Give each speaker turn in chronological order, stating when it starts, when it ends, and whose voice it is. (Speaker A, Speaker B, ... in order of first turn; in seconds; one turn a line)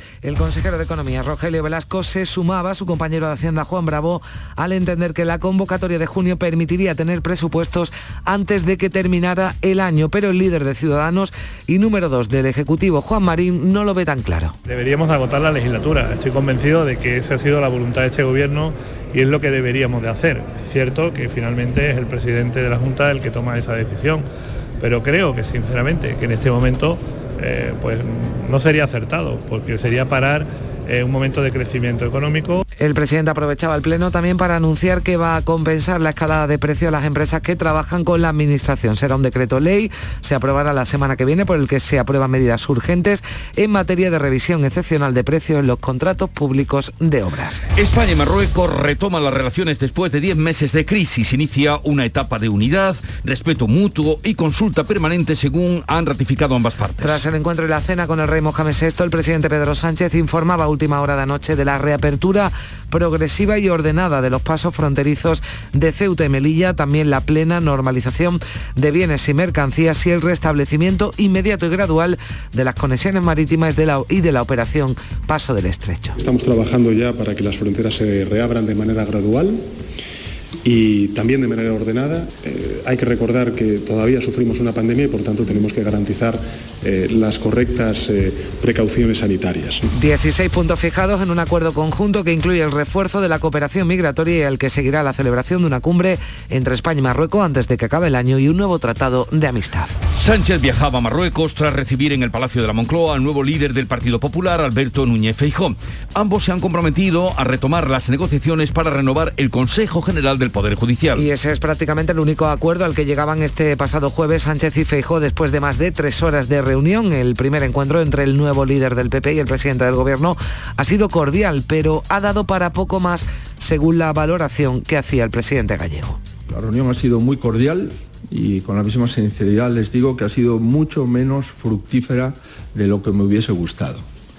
Speaker A: 0.2-14.6
Speaker B: 14.7-24.3
Speaker B: 24.8-32.6
Speaker A: 32.8-47.7
Speaker C: 47.8-57.2
Speaker A: 57.0-76.2
Speaker D: 76.2-79.7
Speaker D: 80.6-89.8
Speaker A: 89.9-99.9
Speaker C: 100.2-111.2
Speaker A: 111.1-126.2
Speaker E: 126.5-134.1